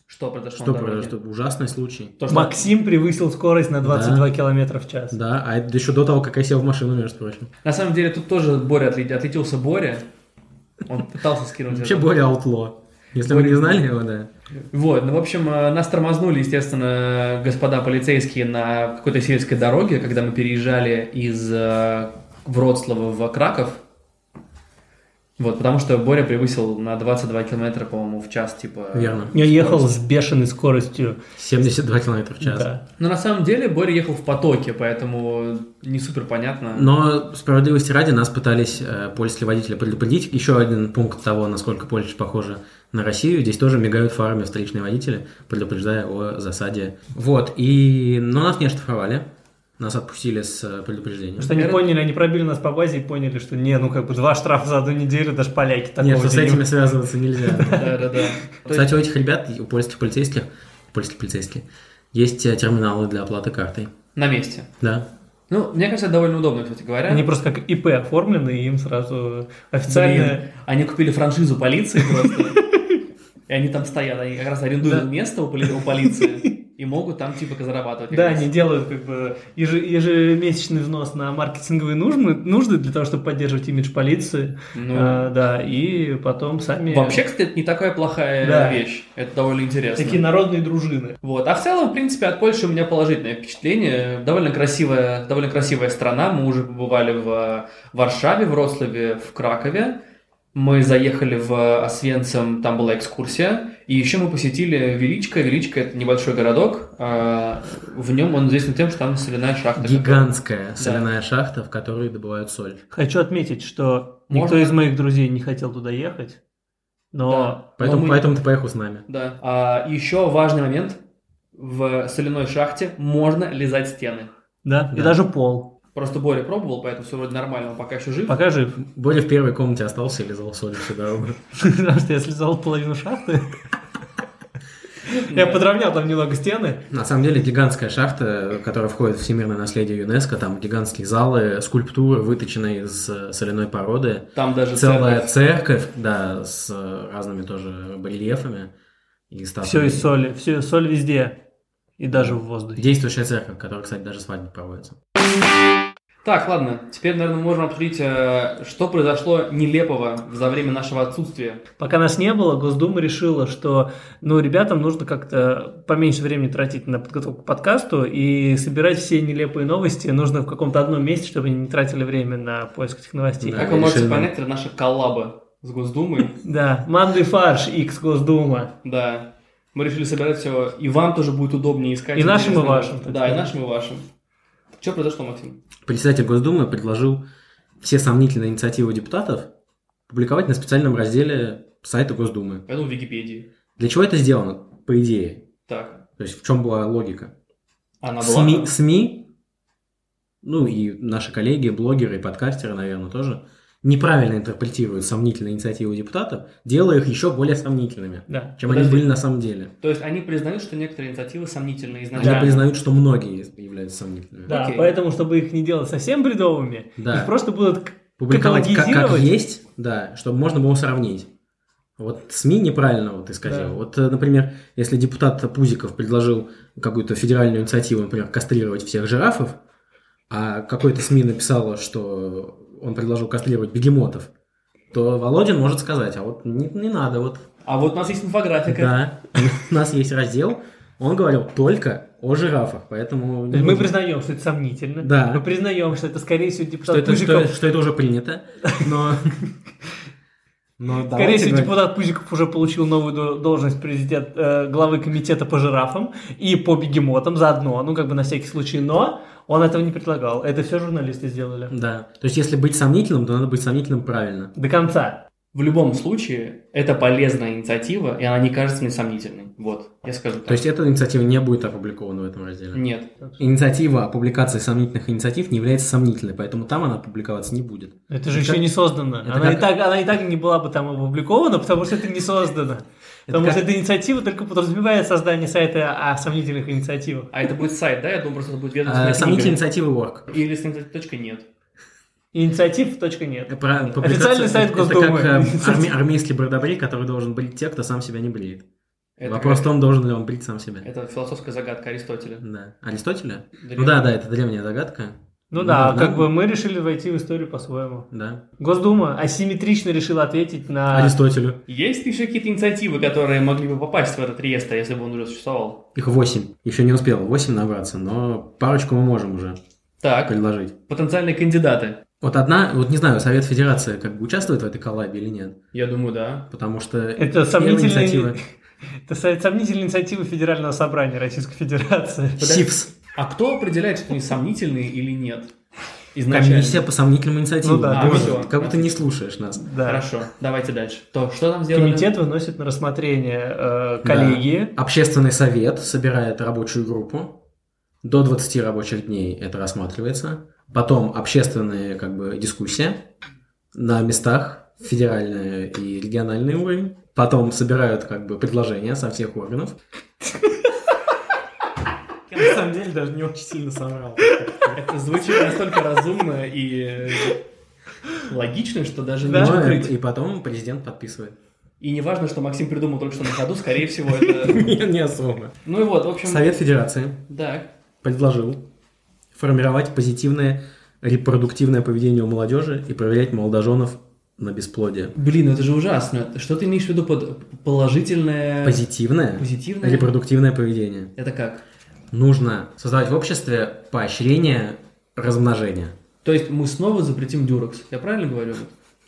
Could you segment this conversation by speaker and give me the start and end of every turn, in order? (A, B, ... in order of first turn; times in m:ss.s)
0:00.1-0:01.1 A
0:00.6-0:02.2 B
0:02.2-0:02.6 A
0:02.3-0:05.2 C
0:03.8-0:04.3 B
0:05.1-0:07.5 B
0:07.6-0:10.1 A
0:10.9-0:12.1 A
0:11.7-0:14.3 B
0:13.2-0:13.8 A
0:14.7-0:23.8 A
0:25.4-0:30.0 A
0:28.9-0:29.3 B
0:29.3-0:31.2 C
0:31.4-0:32.7 B
0:32.4-0:32.8 C
0:33.0-0:36.9 A
0:36.7-0:49.3 B
0:49.8-0:51.5 B
0:51.4-0:56.7 C
0:51.4-0:51.9 A
0:56.0-0:58.0 B
0:57.4-0:57.9 C
0:57.7-0:58.9 A
0:58.7-1:03.9 B
1:04.2-1:04.7 A
1:04.8-1:05.1 B
1:05.5-1:07.3 A
1:07.1-1:10.5 C
1:09.9-1:12.6 A
1:12.0-1:13.0 C
1:13.5-1:18.5 A
1:15.7-1:16.2 C
1:18.1-1:27.2 C
1:24.8-1:25.3 A
1:26.9-1:30.2 A
1:28.4-1:28.8 C
1:30.0-1:31.2 C
1:31.2-1:40.0 A
1:40.6-1:51.1 A
1:49.8-1:52.8 B
1:52.9-1:56.4 C
1:54.3-1:54.8 A
1:57.1-1:57.6 C
1:57.3-1:58.3 A
1:57.8-1:59.0 B
1:59.1-2:01.0 A
2:01.6-2:04.3 A
2:04.6-2:05.7 C
2:06.0-2:08.4 A
2:08.3-2:08.8 C
2:08.8-2:11.4 B
2:11.6-2:13.5 C
2:15.1-2:16.8 C
2:15.3-2:15.6 A
2:16.9-2:28.7 B
2:24.4-2:25.3 A
2:29.3-2:30.1 B
2:29.6-2:31.4 C
2:32.0-2:32.9 C
2:32.1-2:35.0 B
2:36.2-2:41.6 A
2:41.8-2:53.7 C
2:53.4-2:54.3 B
2:53.6-2:56.4 A
2:56.4-2:58.7 C
2:58.8-3:04.0 A
3:02.2-3:03.5 C
3:04.8-3:05.6 A
3:05.8-3:07.2 B
3:07.8-3:09.5 B
3:10.1-3:12.6 B
3:12.7-3:13.5 A
3:13.8-3:15.4 B
3:15.7-3:16.0 A
3:16.2-3:17.3 B
3:18.0-3:18.7 A
3:18.2-3:19.3 B
3:20.4-3:29.7 B
3:28.3-3:28.6 C
3:28.7-3:29.1 A
3:29.8-3:32.6 A
3:32.1-3:34.5 B
3:32.2-3:32.6 C
3:34.5-3:34.9 A
3:34.5-3:39.3 C
3:37.0-3:37.3 B
3:38.2-3:41.3 B
3:42.0-3:49.6 B
3:43.4-3:43.7 C
3:50.3-3:54.3 B
3:54.9-3:57.5 B
3:57.6-3:59.0 A
3:58.7-4:03.9 B
4:03.5-4:07.6 C
4:05.0-4:05.4 B
4:06.9-4:09.4 B
4:10.8-4:11.8 B
4:11.1-4:21.7 C
4:21.7-4:24.5 B
4:24.6-4:25.2 C
4:25.5-4:30.6 A
4:30.5-4:32.8 B
4:32.7-4:33.1 A
4:33.4-4:39.7 B
4:38.1-4:47.3 C
4:43.3-4:43.6 B
4:47.3-4:49.6 A
4:48.8-4:50.3 B
4:50.3-4:51.5 A
4:52.3-4:55.9 C
4:53.5-4:58.6 B
4:59.2-4:59.7 A
4:59.2-5:00.9 B
5:00.8-5:02.4 A
5:02.4-5:06.3 B
5:03.6-5:04.1 A
5:05.5-5:08.1 C
5:08.1-5:08.4 B
5:08.6-5:11.2 C
5:10.9-5:11.6 B
5:11.7-5:15.9 A
5:16.0-5:19.6 B
5:20.0-5:20.4 A
5:20.2-5:20.7 B
5:20.9-5:22.0 A
5:22.2-5:25.6 B
5:25.7-5:26.5 A
5:26.5-5:28.4 B
5:27.2-5:28.4 C
5:29.1-5:32.5 C
5:32.4-5:32.9 B
5:32.4-5:35.5 A
5:36.1-5:36.8 A
5:36.3-5:39.7 B
5:37.6-5:38.4 C
5:37.9-5:39.1 A
5:39.6-5:40.1 C
5:39.8-5:42.1 A
5:41.7-5:44.7 C
5:44.0-5:47.4 B
5:48.0-5:53.1 B
5:53.7-5:59.8 B
6:02.3-6:04.8 B
6:04.8-6:07.4 A
6:08.2-6:09.9 A
6:09.2-6:09.8 C
6:09.3-6:11.4 B
6:11.8-6:14.7 A
6:14.3-6:15.6 B
6:15.6-6:16.5 A
6:16.2-6:17.3 B
6:17.3-6:17.7 A
6:18.0-6:18.6 B
6:19.3-6:25.1 B
6:25.2-6:28.8 A
6:28.6-6:31.1 B
6:29.4-6:30.1 A
6:31.2-6:31.6 A
6:32.1-6:36.0 B
6:36.2-6:38.7 A